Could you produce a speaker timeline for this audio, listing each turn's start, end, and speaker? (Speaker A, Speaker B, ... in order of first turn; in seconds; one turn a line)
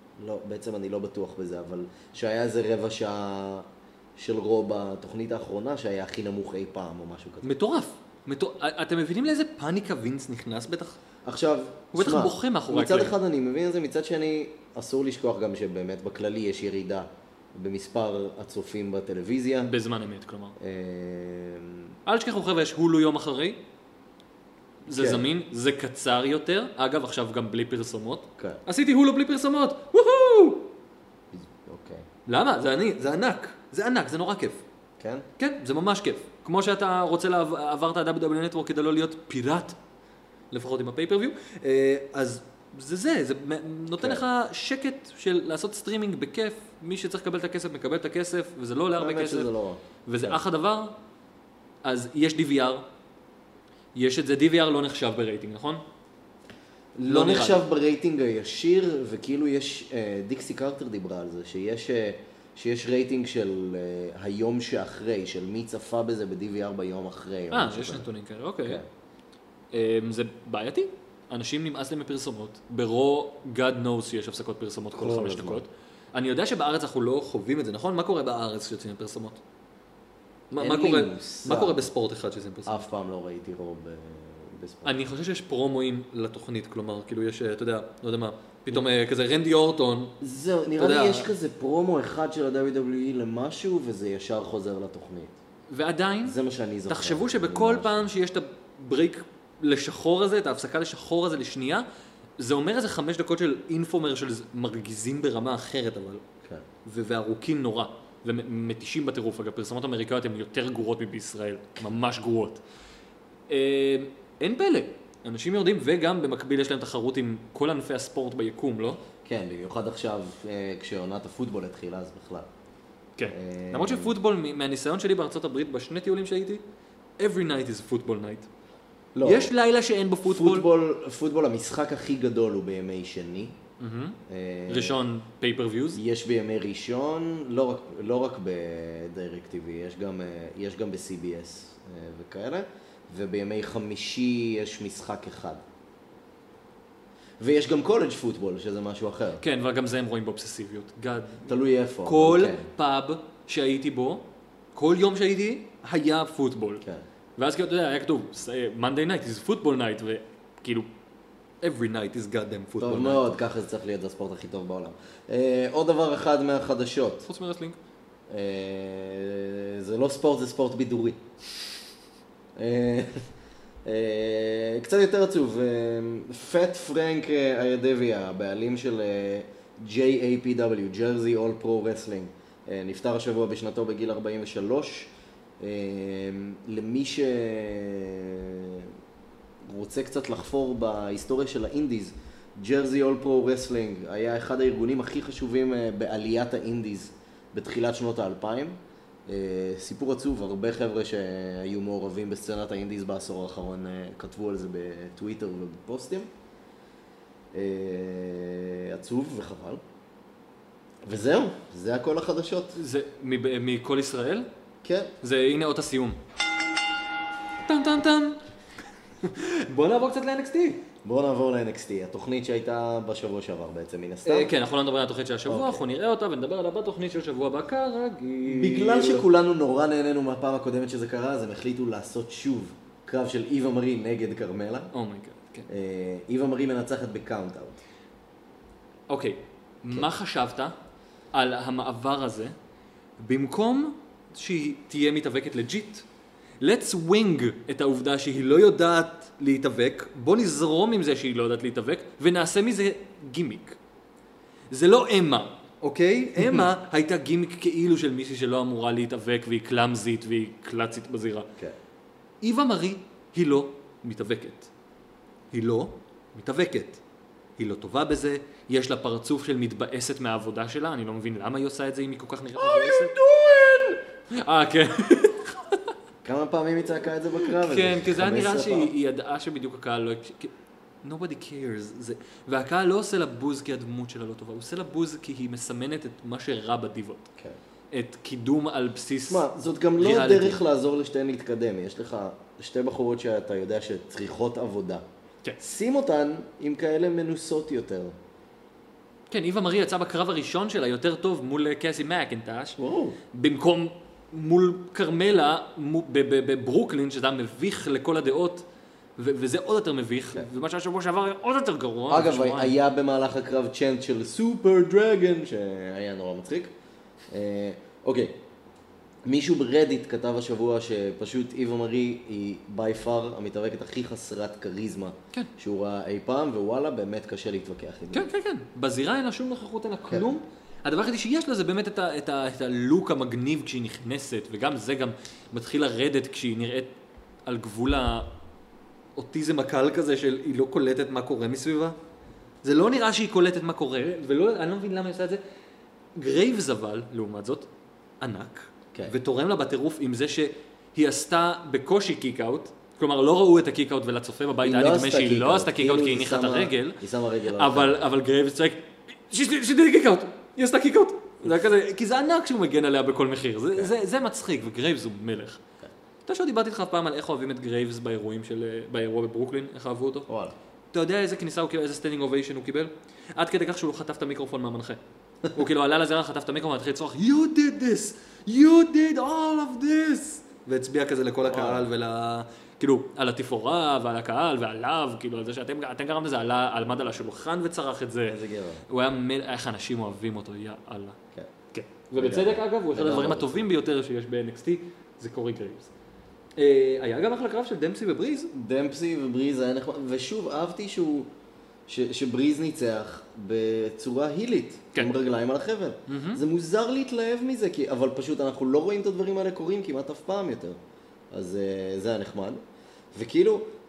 Speaker A: 0.2-7.5
Speaker B: 7.4-11.0
Speaker A: 11.2-19.7
Speaker B: 11.9-13.1
Speaker B: 19.6-20.6
Speaker A: 20.6-21.9
Speaker B: 22.1-23.6
Speaker B: 24.9-30.7
Speaker A: 24.9-25.2
Speaker A: 31.3-32.1
Speaker B: 32.2-34.6
Speaker A: 35.0-35.2
Speaker B: 35.4-39.8
Speaker B: 40.5-49.5
Speaker A: 44.0-44.2
Speaker A: 49.0-50.4
Speaker B: 50.1-51.0
Speaker B: 51.8-52.8
Speaker B: 53.9-55.8
Speaker A: 57.0-68.1
Speaker B: 57.0-57.6
Speaker B: 67.5-68.8
Speaker B: 69.7-79.4
Speaker A: 74.9-75.6
Speaker B: 80.5-82.9
Speaker A: 80.6-81.9
Speaker A: 82.7-84.9
Speaker B: 84.8-90.2
Speaker A: 90.2-95.4
Speaker B: 90.8-91.3
Speaker B: 95.7-101.9
Speaker A: 96.2-98.1
Speaker B: 102.4-106.2
Speaker B: 106.8-112.6
Speaker B: 113.5-119.0
Speaker A: 119.2-122.5
Speaker B: 123.2-126.6
Speaker A: 123.3-124.1
Speaker B: 127.2-128.5
Speaker A: 129.1-129.5
Speaker B: 129.2-130.7
Speaker A: 130.2-133.6
Speaker B: 133.8-134.2
Speaker A: 134.3-135.0
Speaker B: 134.7-136.0
Speaker A: 135.9-145.6
Speaker A: 147.4-149.4
Speaker B: 149.4-156.8
Speaker A: 151.5-152.7
Speaker B: 157.4-160.9
Speaker B: 161.6-163.2
Speaker A: 162.8-167.3
Speaker B: 167.2-167.8
Speaker A: 168.3-171.2
Speaker A: 172.6-173.2
Speaker A: 173.8-188.9
Speaker A: 189.6-206.3
Speaker A: 207.5-209.8
Speaker A: 211.0-212.8
Speaker B: 212.8-214.5
Speaker A: 214.8-215.1
Speaker B: 215.2-216.2
Speaker B: 217.6-218.4
Speaker B: 219.2-220.8
Speaker A: 221.0-224.5
Speaker B: 224.2-229.3
Speaker A: 225.5-225.8
Speaker A: 228.4-234.9
Speaker B: 234.9-235.7
Speaker A: 235.7-237.8
Speaker B: 239.1-240.8
Speaker B: 241.3-242.5
Speaker B: 243.2-246.0
Speaker B: 246.6-253.8
Speaker B: 254.7-261.5
Speaker A: 256.4-256.6
Speaker B: 262.4-264.7
Speaker B: 265.5-267.0
Speaker B: 267.6-273.2
Speaker A: 272.6-273.9
Speaker B: 273.8-275.8
Speaker A: 276.2-278.9
Speaker B: 277.4-280.5
Speaker B: 281.0-287.2
Speaker B: 287.9-289.5
Speaker A: 289.3-295.0
Speaker B: 290.0-290.6
Speaker A: 295.6-298.1
Speaker B: 299.3-302.8
Speaker A: 302.8-303.2
Speaker B: 303.3-308.6
Speaker B: 309.2-312.8
Speaker A: 312.1-316.7
Speaker A: 317.3-318.4
Speaker A: 319.2-328.3
Speaker B: 328.1-336.9
Speaker B: 337.5-338.3
Speaker B: 339.1-342.0
Speaker B: 342.6-345.4
Speaker B: 346.1-347.7
Speaker B: 348.2-357.0
Speaker A: 354.6-358.0
Speaker B: 357.5-365.6
Speaker B: 366.2-370.3
Speaker A: 370.3-370.5
Speaker B: 370.9-375.0
Speaker B: 375.5-391.2
Speaker A: 381.4-381.9
Speaker A: 388.3-388.8
Speaker B: 391.7-395.9
Speaker A: 392.1-393.6
Speaker B: 396.6-398.5
Speaker A: 398.5-401.3
Speaker A: 401.9-410.8
Speaker B: 406.1-406.4
Speaker A: 411.3-412.6
Speaker A: 413.1-413.7